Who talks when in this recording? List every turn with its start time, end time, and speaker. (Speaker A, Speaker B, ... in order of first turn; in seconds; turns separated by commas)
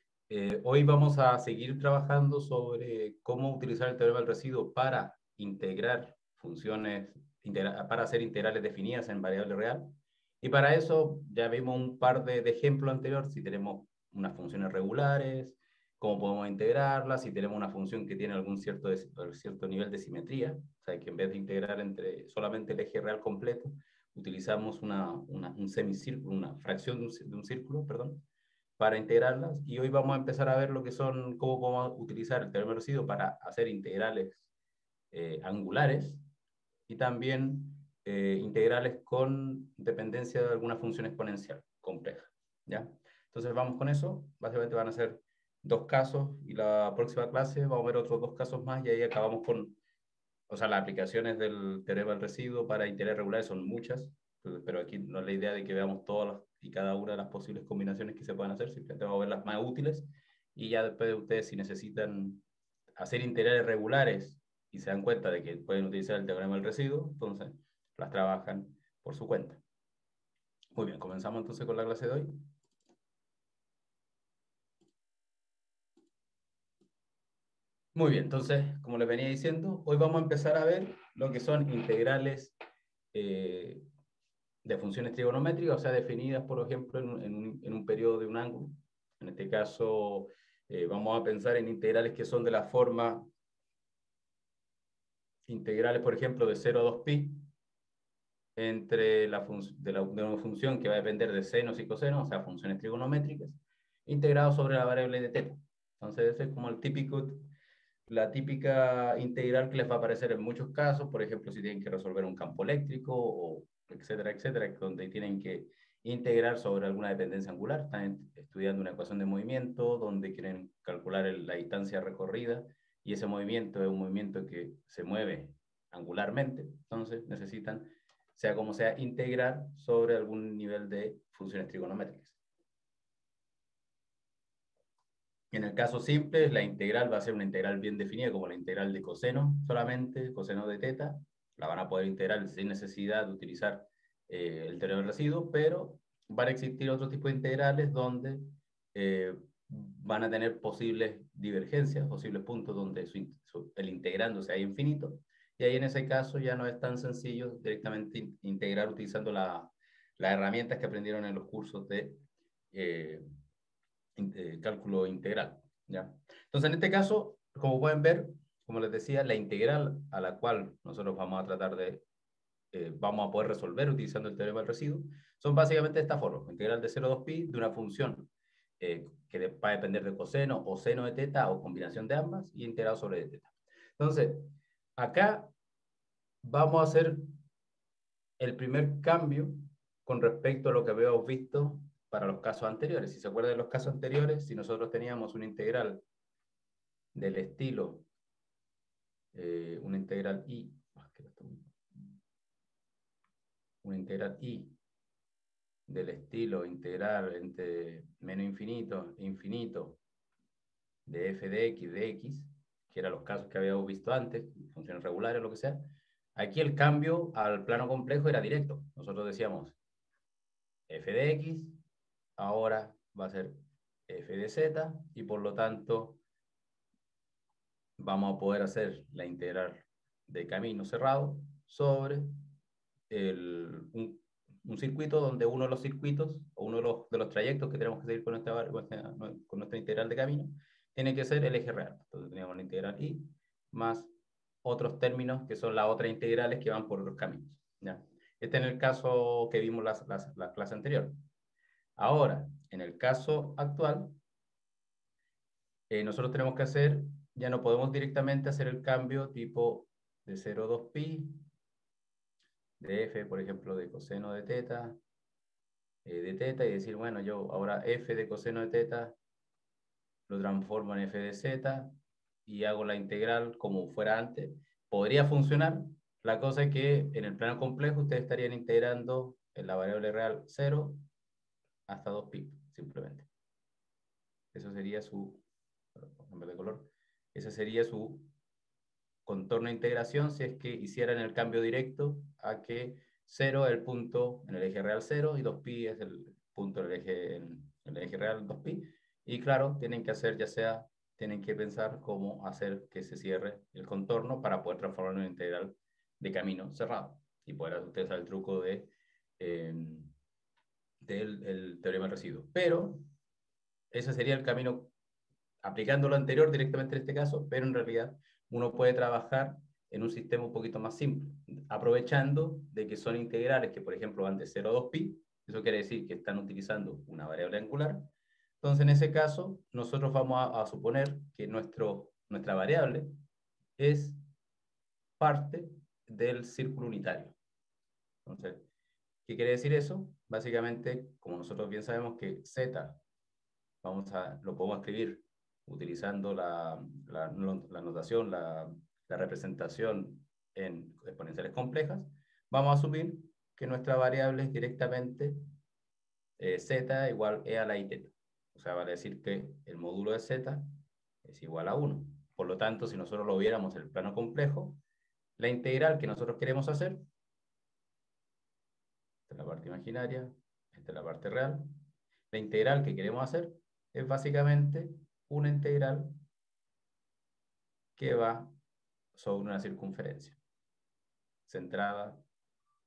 Speaker A: 0.3-9.9, Speaker A: 10.4-28.2, Speaker A: 28.8-34.5, Speaker A: 35.1-36.2, Speaker A: 36.9-49.8, Speaker A: 50.5-62.4, Speaker A: 63.0-69.6, Speaker A: 70.8-72.3, Speaker A: 78.0-82.6, Speaker A: 83.1-83.8, Speaker A: 84.7-93.2, Speaker A: 95.5-97.4, Speaker A: 98.6-107.4, Speaker A: 108.1-132.4, Speaker A: 135.5-163.2, Speaker A: 164.2-172.0, Speaker A: 172.7-185.5, Speaker A: 186.4-187.2, Speaker A: 188.4-196.0, Speaker A: 197.2-198.1, Speaker A: 199.3-201.7, Speaker A: 203.8-204.8, Speaker A: 205.9-210.0, Speaker A: 211.1-215.8, Speaker A: 216.3-219.8, Speaker A: 220.9-221.8, Speaker A: 222.4-223.6, Speaker A: 224.1-226.2, Speaker A: 228.0-232.3, Speaker A: 233.1-244.1, Speaker A: 244.6-251.2, Speaker A: 252.0-254.2, Speaker A: 255.9-261.3, Speaker A: 262.8-265.0, Speaker A: 266.1-269.2, Speaker A: 270.3-271.9, Speaker A: 272.5-281.0, Speaker A: 281.9-283.3, Speaker A: 284.5-285.4, Speaker A: 286.0-288.3, Speaker A: 289.3-310.1, Speaker A: 311.0-313.0, Speaker A: 313.9-314.9, Speaker A: 315.6-328.1, Speaker A: 328.6-333.1, Speaker A: 333.8-334.2, Speaker A: 335.2-337.4, Speaker A: 338.2-338.6, Speaker A: 339.3-343.0, Speaker A: 343.8-355.4, Speaker A: 356.4-360.7, Speaker A: 361.2-364.8, Speaker A: 365.4-367.0, Speaker A: 369.3-371.7, Speaker A: 372.3-376.1, Speaker A: 378.0-378.5, Speaker A: 379.1-380.4, Speaker A: 381.5-382.2